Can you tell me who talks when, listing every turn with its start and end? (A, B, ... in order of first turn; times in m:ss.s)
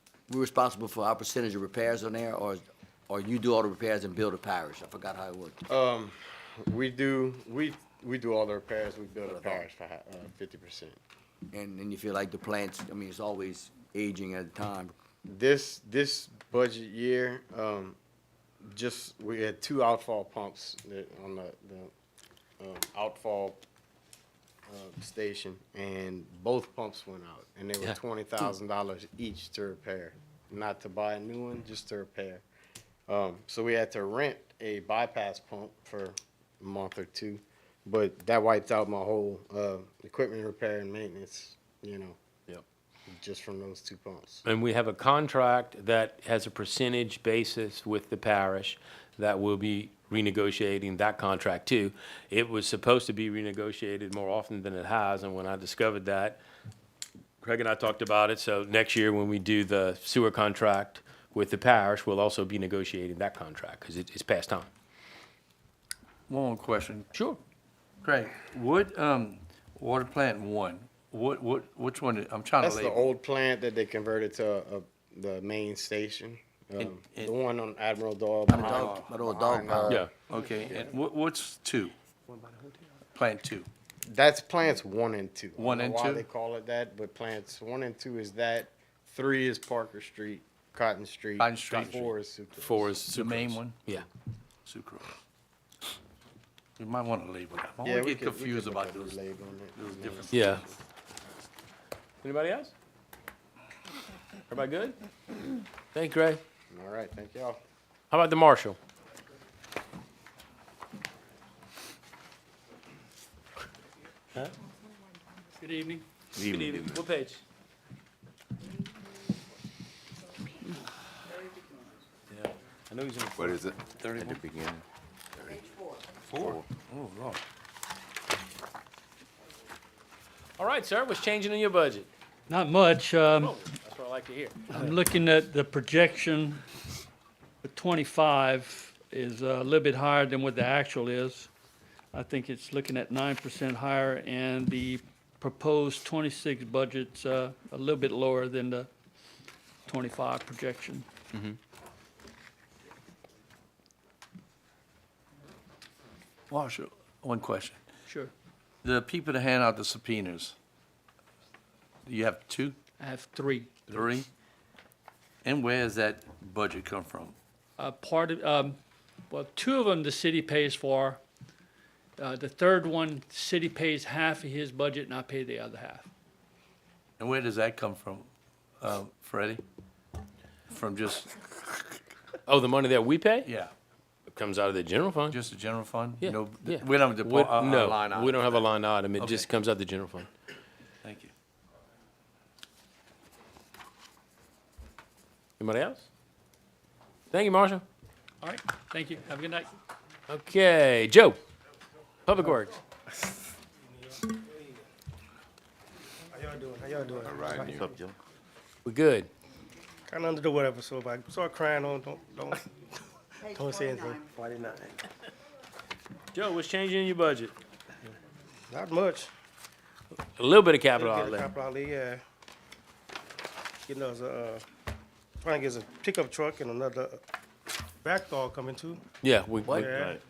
0:00.3-0:05.6 A
0:05.7-0:11.0 B
0:11.5-0:14.9 A
0:15.2-0:18.0 B
0:18.6-0:21.9 B
0:22.6-0:23.6 B
0:24.7-0:32.4 B
0:33.1-0:42.2 B
0:43.1-0:44.4 B
0:44.4-0:56.4 C
0:57.4-1:04.7 C
1:06.3-1:07.1 D
1:08.0-1:13.1 D
1:12.6-1:20.1 B
1:16.8-1:17.3 D
1:18.5-1:20.1 A
1:18.6-1:19.1 D
1:20.3-1:21.9 D
1:20.3-1:20.8 E
1:22.3-1:22.9 E
1:23.2-1:23.7 D
1:24.1-1:33.1 B
1:25.6-1:26.3 D
1:31.4-1:32.1 D
1:32.6-1:34.0 C
1:33.1-1:33.8 D
1:34.7-1:35.2 D
1:36.8-1:40.7 D
1:37.8-1:40.4 B
1:40.3-1:40.6 C
1:42.2-1:42.7 C
1:44.5-1:45.0 C
1:45.9-1:46.4 C
1:46.7-1:47.6 B
1:48.1-1:48.8 C
1:55.6-1:56.0 F
1:56.4-1:57.0 G
1:56.4-1:57.4 C
2:02.3-2:03.6 C
2:03.4-2:04.8 G
2:04.0-2:04.7 D
2:05.4-2:05.7 G
2:06.3-2:07.4 D
2:10.6-2:12.1 C
2:12.5-2:13.6 F
2:13.4-2:14.8 C
2:14.7-2:16.6 F
2:17.6-2:21.5 F
2:22.1-2:28.9 F
2:29.9-2:31.1 F
2:36.5-2:37.8 D
2:38.1-2:38.3 F
2:38.8-2:40.6 D
2:42.0-2:42.8 D
2:43.0-2:43.9 F
2:43.9-2:44.3 D
2:45.4-2:47.4 D
2:47.8-2:48.8 F
2:49.3-2:51.2 F
2:52.2-2:56.1 F
2:57.2-2:58.3 D
2:58.8-2:59.6 D
3:00.7-3:01.8 D
3:02.5-3:03.5 C
3:03.4-3:03.7 D
3:04.3-3:05.4 C
3:05.3-3:08.4 D
3:06.2-3:10.3 C
3:09.2-3:09.5 D
3:11.0-3:11.3 D
3:15.6-3:16.1 C
3:17.3-3:17.8 C
3:18.4-3:19.7 F
3:20.3-3:21.4 C
3:22.3-3:22.7 C
3:23.8-3:24.8 E
3:26.3-3:28.0 E
3:27.3-3:28.2 G
3:28.8-3:29.3 C
3:30.1-3:35.0 E
3:36.3-3:37.5 C
3:38.7-3:39.3 E
3:40.4-3:41.5 C
3:41.0-3:42.2 E
3:43.9-3:44.6 E
3:45.4-3:47.2 E
3:48.0-3:49.0 E
3:49.2-3:50.0 C
3:49.7-3:50.2 E
3:50.0-3:50.2 G